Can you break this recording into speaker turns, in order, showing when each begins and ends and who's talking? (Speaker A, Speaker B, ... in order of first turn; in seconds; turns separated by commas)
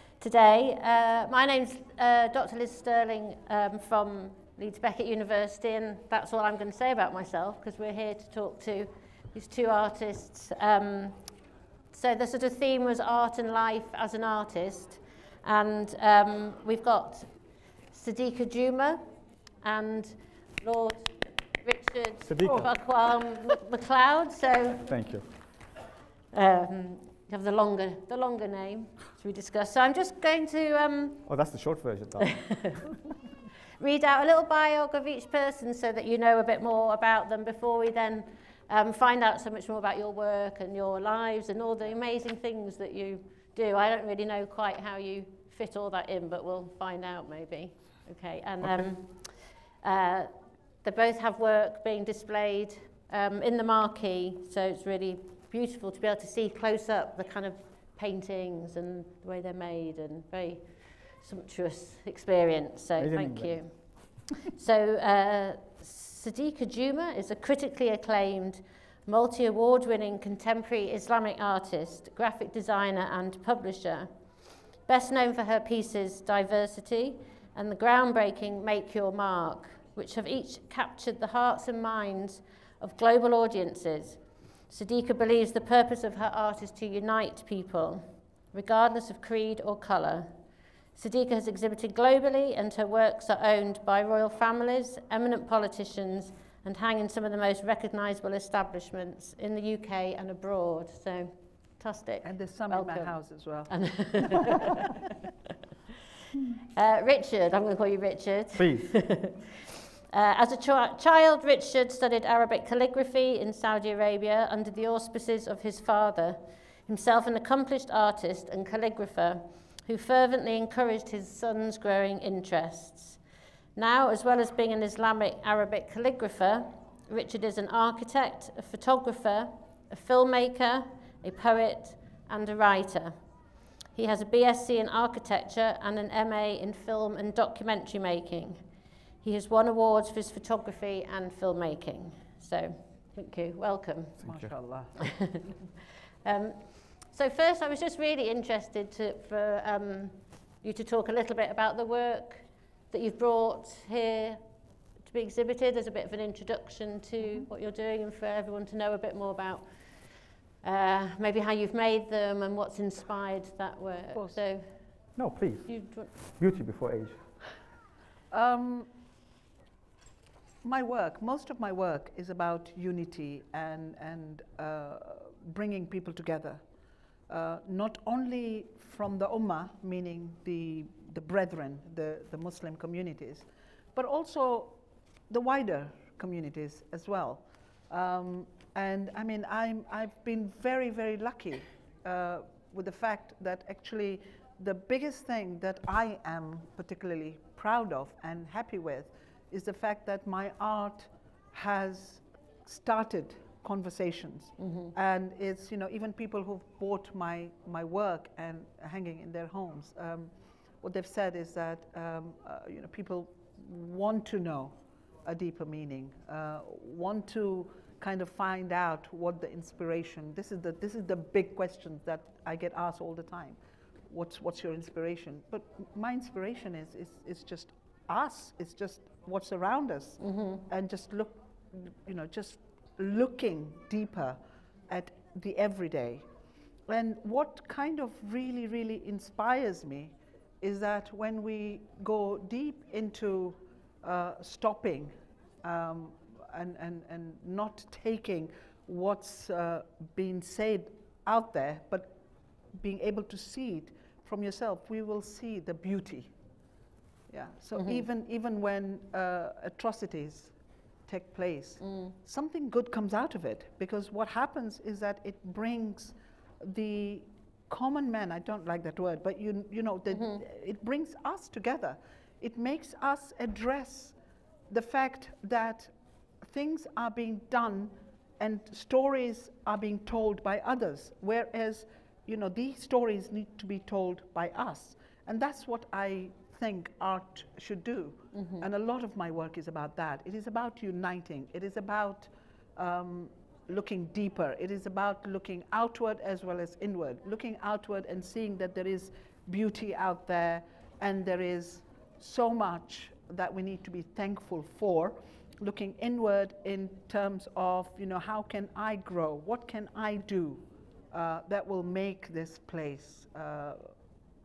Speaker A: 0.2-11.4, Speaker A: 11.9-19.0, Speaker A: 19.6-24.9, Speaker B: 22.3-22.7, Speaker B: 24.8-25.3, Speaker A: 26.3-31.3, Speaker B: 31.2-32.9, Speaker A: 32.4-32.8, Speaker A: 33.8-74.1, Speaker B: 48.6-48.9, Speaker B: 63.0-63.9, Speaker A: 74.8-90.3, Speaker A: 90.9-103.1, Speaker C: 102.2-104.5, Speaker A: 103.7-104.9, Speaker A: 106.7-109.5, Speaker B: 108.5-109.1, Speaker A: 110.1-123.2, Speaker A: 123.8-133.3, Speaker A: 133.9-138.6, Speaker A: 139.2-144.2, Speaker B: 144.2-144.5, Speaker C: 144.2-145.3, Speaker A: 145.1-145.4, Speaker A: 146.2-154.4, Speaker A: 155.0-165.1, Speaker B: 165.2-167.2, Speaker A: 165.7-166.1, Speaker C: 168.3-168.9, Speaker C: 170.6-176.6, Speaker C: 177.3-184.8, Speaker C: 185.3-210.3, Speaker A: 204.6-204.9, Speaker C: 210.8-223.6, Speaker C: 224.1-236.2, Speaker A: 230.2-230.6, Speaker C: 236.9-252.1, Speaker C: 252.7-256.3, Speaker C: 257.3-260.5, Speaker A: 257.8-258.0, Speaker C: 261.1-274.1, Speaker A: 261.8-262.1, Speaker A: 270.1-270.4, Speaker C: 274.7-275.9, Speaker C: 276.4-313.9, Speaker A: 288.3-288.6